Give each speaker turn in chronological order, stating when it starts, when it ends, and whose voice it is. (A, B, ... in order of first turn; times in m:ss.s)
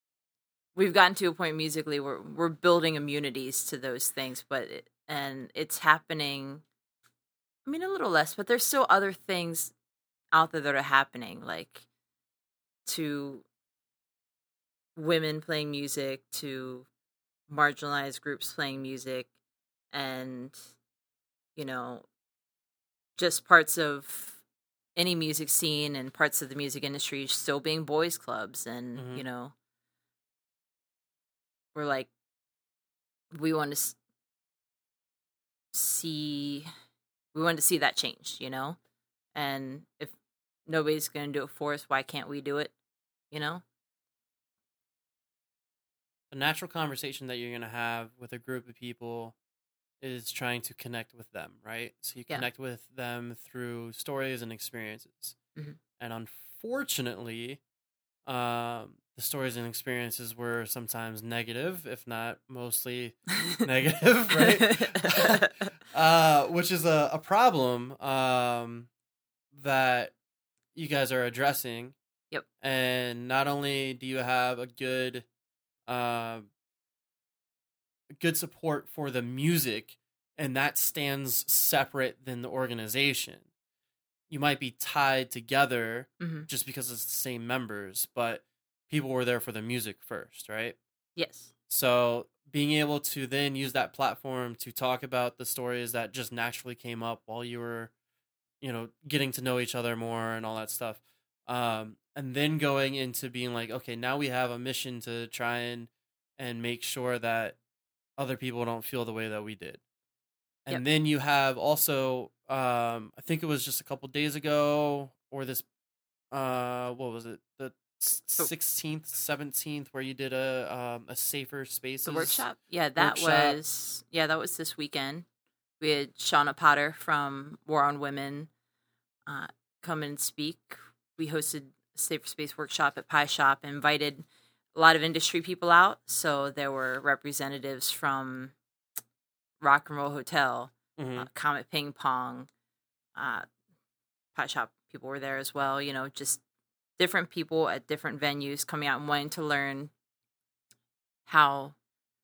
0:00.8-0:06.6 A
0:07.6-0:09.7 A
0:10.3-0:11.8 A
0:12.9-0:13.4 A
0:15.0-0:16.9 A
0:17.5-0:19.3 A
0:19.9-0:20.6 A
0:21.6-0:22.0 A
0:23.2-0:24.4 A
0:25.0-0:29.5 A
0:29.0-0:29.2 B
0:31.8-0:32.1 A
0:33.3-0:34.0 A
0:35.7-0:36.7 A
0:37.3-0:38.8 A
0:39.4-0:40.1 A
0:40.7-0:42.7 A
0:43.3-0:43.6 A
0:46.3-0:49.4 B
0:50.0-0:55.4 B
0:56.0-0:57.6 B
0:58.2-1:08.9 B
1:04.4-1:05.7 A
1:09.5-1:10.1 B
1:10.7-1:12.0 B
1:12.6-1:15.3 B
1:15.9-1:16.5 B
1:18.2-1:23.5 B
1:24.3-1:30.8 B
1:26.2-1:26.5 A
1:31.2-1:31.5 A
1:31.7-1:37.9 B
1:38.6-1:47.6 B
1:48.2-1:49.8 B
1:50.6-1:55.6 B
1:56.3-2:02.4 B
2:02.0-2:05.2 A
2:03.0-2:03.6 B
2:05.8-2:08.5 A
2:09.3-2:18.5 A
2:19.6-2:22.5 A
2:21.0-2:21.3 B
2:23.2-2:23.5 A
2:24.4-2:26.4 A
2:27.0-2:29.9 A
2:31.3-2:31.8 A